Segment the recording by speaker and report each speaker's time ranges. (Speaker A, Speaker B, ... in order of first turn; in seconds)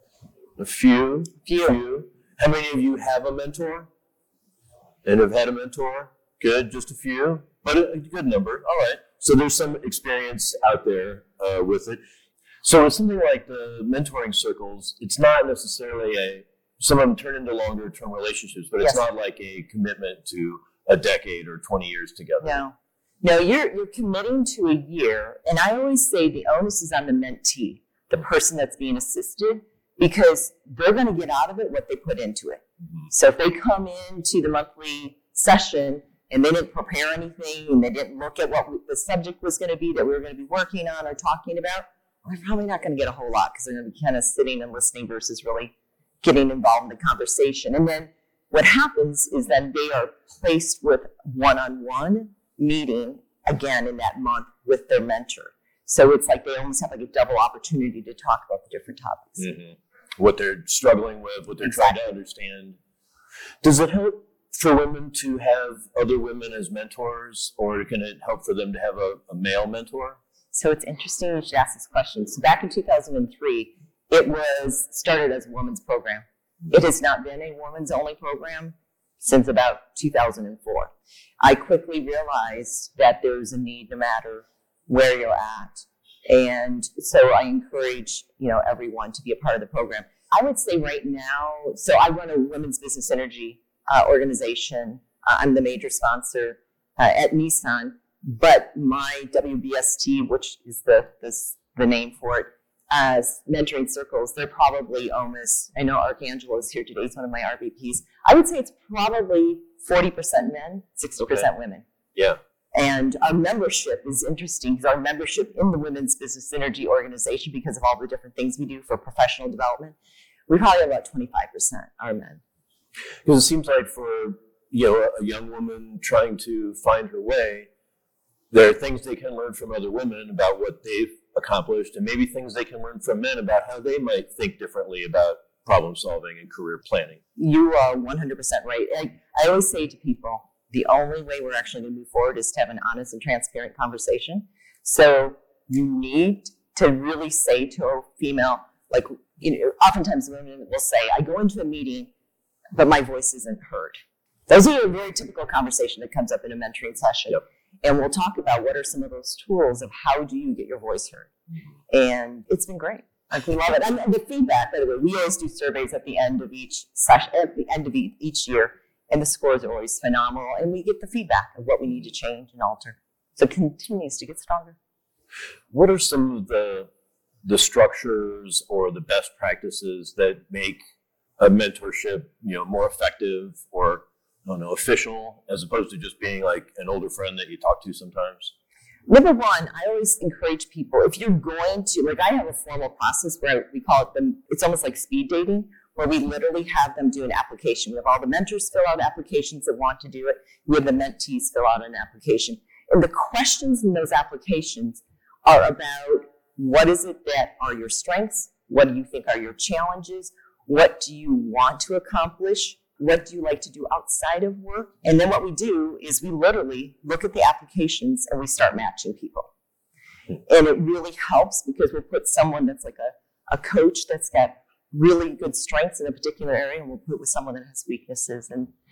Speaker A: 0.6-3.9, 5.0-12.0, 12.6-22.6, 59.4-62.8, 63.6-70.2, 123.2-127.7, 128.5-137.2, 175.7-176.9, 177.4-180.8, 181.4-188.5
Speaker B: 1.4-1.8, 22.4-59.5, 61.6-62.0, 70.5-80.9, 81.4-111.8, 112.7-119.9, 120.5-122.4, 137.4-152.1, 152.7-154.0, 154.5-161.3, 161.9-174.8, 189.1-219.5, 220.5-228.7